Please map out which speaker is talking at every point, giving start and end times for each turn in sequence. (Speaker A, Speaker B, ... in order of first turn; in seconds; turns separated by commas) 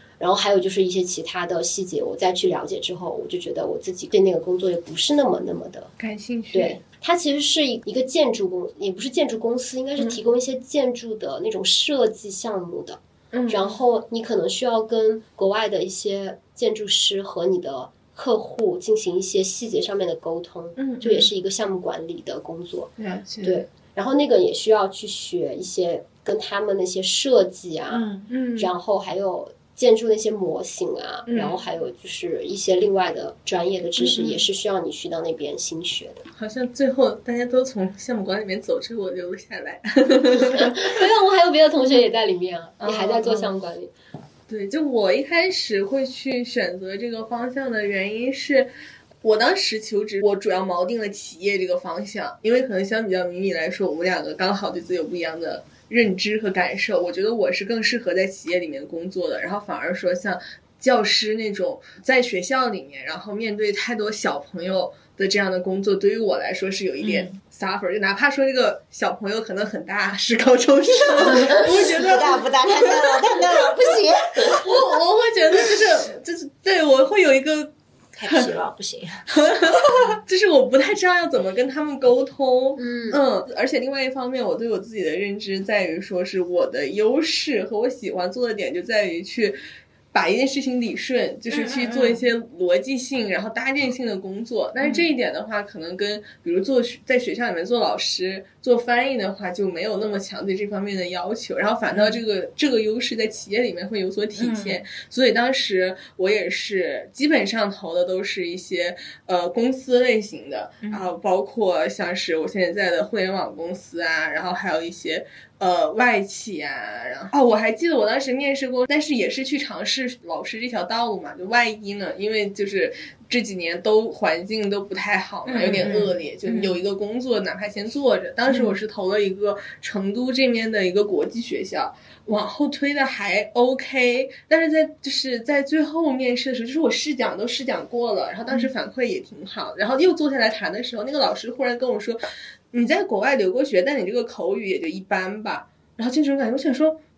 Speaker A: 0.2-5.9, Speaker B: 6.0-6.8, Speaker A: 6.5-22.9, Speaker B: 10.0-10.2, Speaker B: 13.3-13.8, Speaker B: 20.8-21.3, Speaker B: 23.0-23.6, Speaker A: 23.4-28.0, Speaker C: 27.9-28.3, Speaker B: 28.3-28.7, Speaker A: 28.6-36.2, Speaker B: 31.3-31.6, Speaker C: 34.0-34.4, Speaker B: 36.4-40.8, Speaker A: 40.3-43.9, Speaker B: 42.8-43.5, Speaker B: 44.5-48.7, Speaker B: 49.2-73.3, Speaker C: 67.0-67.4, Speaker C: 71.0-74.7, Speaker B: 74.5-77.7, Speaker C: 78.2-80.2, Speaker B: 78.3-78.5, Speaker B: 79.3-89.6, Speaker A: 82.8-83.2, Speaker B: 90.1-142.2, Speaker A: 91.5-92.2, Speaker C: 101.9-102.2, Speaker C: 104.4-104.8, Speaker C: 125.5-126.8, Speaker C: 128.5-128.8, Speaker B: 142.7-147.0